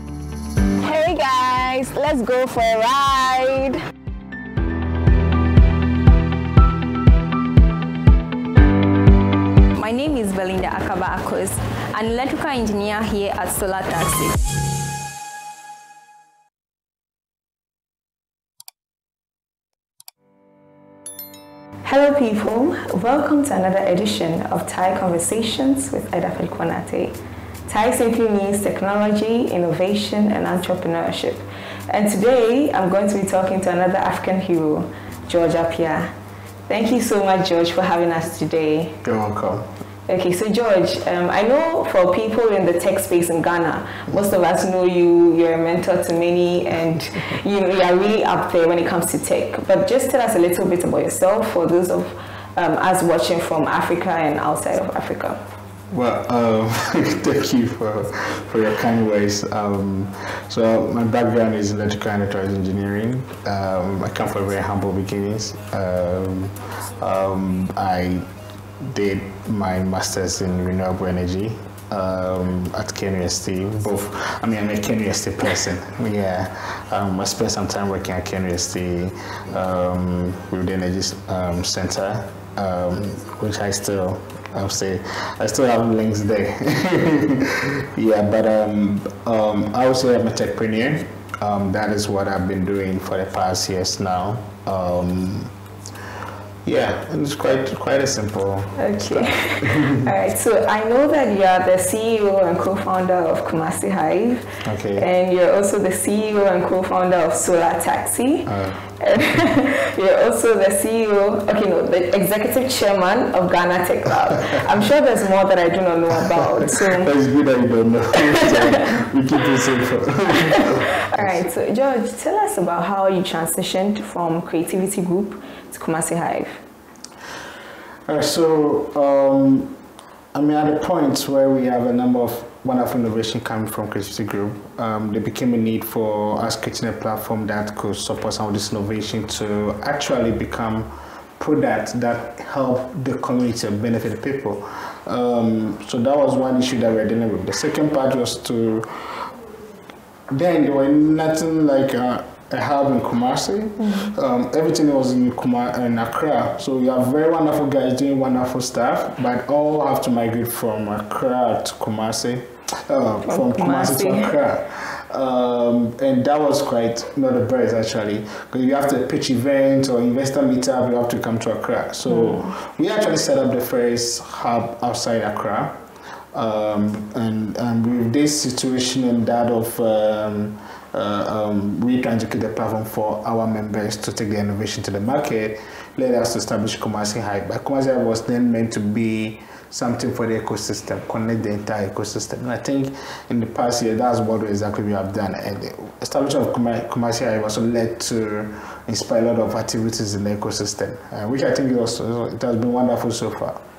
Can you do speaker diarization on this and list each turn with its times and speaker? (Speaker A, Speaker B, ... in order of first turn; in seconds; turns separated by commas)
Speaker A: 0.8-3.8, Speaker B: 9.8-14.4, Speaker A: 21.9-36.1, Speaker A: 36.7-39.0, Speaker C: 39.0-39.7, Speaker A: 40.1-55.4, Speaker C: 55.9-68.3, Speaker C: 68.8-95.5, Speaker C: 96.7-100.1, Speaker A: 98.8-117.1, Speaker C: 104.6-105.1, Speaker C: 108.5-108.8, Speaker C: 116.7-121.4, Speaker A: 118.3-119.0, Speaker A: 120.4-126.6, Speaker C: 128.1-129.8, Speaker C: 130.3-149.3, Speaker C: 150.3-175.8, Speaker A: 153.8-154.1, Speaker A: 163.2-164.3, Speaker A: 172.1-172.6, Speaker C: 176.3-203.6